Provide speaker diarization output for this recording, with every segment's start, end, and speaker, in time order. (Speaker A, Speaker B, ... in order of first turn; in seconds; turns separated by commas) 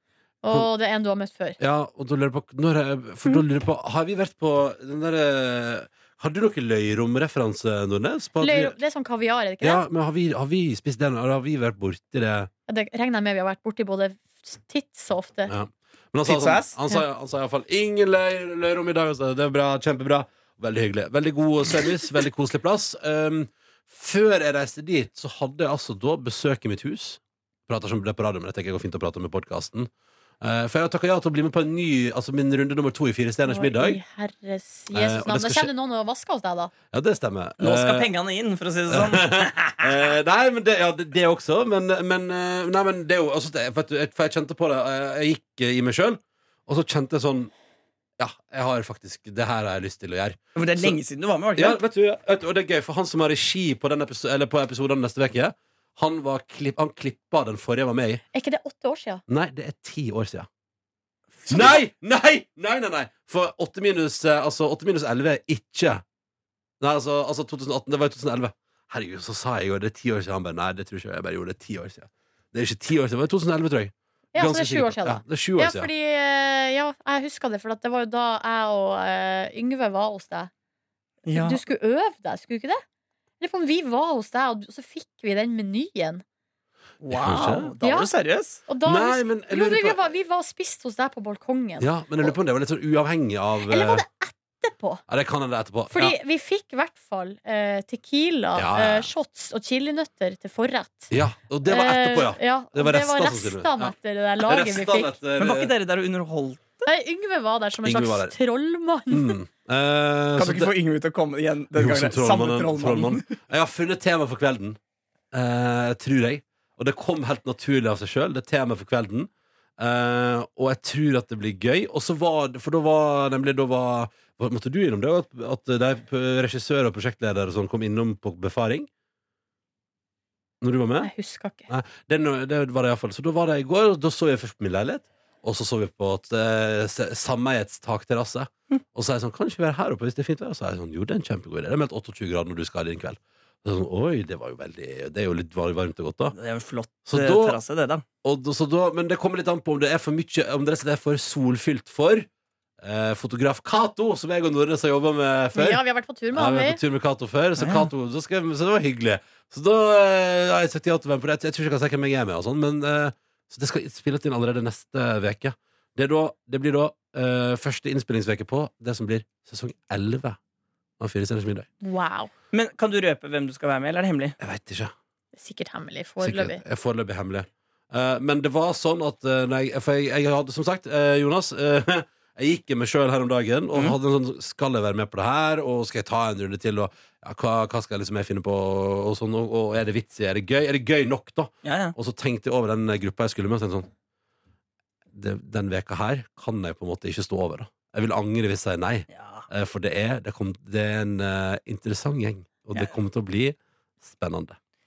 Speaker A: 0.4-1.6, Speaker B: 1.6-8.8, Speaker A: 8.4-9.8, Speaker B: 9.6-12.5, Speaker A: 12.7-15.5, Speaker B: 15.5-29.9, Speaker C: 16.2-16.8, Speaker B: 30.4-34.0, Speaker A: 33.5-36.7, Speaker B: 34.9-35.7, Speaker B: 36.9-38.1, Speaker C: 37.6-40.0, Speaker B: 38.9-47.5, Speaker B: 48.2-51.0, Speaker C: 50.5-51.8, Speaker B: 51.5-58.2, Speaker A: 58.3-59.2, Speaker B: 59.3-60.5, Speaker C: 61.4-61.8, Speaker B: 61.5-66.0, Speaker B: 66.8-75.9, Speaker A: 74.3-80.5, Speaker C: 81.2-81.6, Speaker A: 81.3-82.8, Speaker A: 83.4-86.2, Speaker C: 87.0-88.6, Speaker B: 87.1-87.7, Speaker A: 87.8-88.1, Speaker A: 88.7-92.3, Speaker B: 88.8-90.0, Speaker B: 91.8-94.0, Speaker A: 93.7-95.0, Speaker B: 95.1-96.2, Speaker A: 95.9-101.1, Speaker B: 98.5-99.1, Speaker B: 101.1-105.7, Speaker A: 101.7-105.1, Speaker C: 105.4-106.8, Speaker A: 106.8-109.3, Speaker B: 107.8-108.3, Speaker B: 109.1-110.7, Speaker C: 110.4-113.3, Speaker B: 111.7-114.8, Speaker B: 115.3-128.9, Speaker B: 130.6-131.1, Speaker A: 131.0-131.7, Speaker B: 131.7-146.3, Speaker C: 146.3-148.0, Speaker B: 147.1-147.6, Speaker B: 148.2-152.3, Speaker B: 152.8-155.8, Speaker A: 155.5-156.8, Speaker B: 156.3-170.4, Speaker C: 157.6-157.9, Speaker B: 171.0-171.7, Speaker A: 171.8-172.3, Speaker C: 172.5-174.3, Speaker B: 174.4-174.9, Speaker A: 175.3-176.6, Speaker B: 176.2-193.9, Speaker C: 191.6-191.9, Speaker B: 195.1-204.6, Speaker C: 199.1-199.4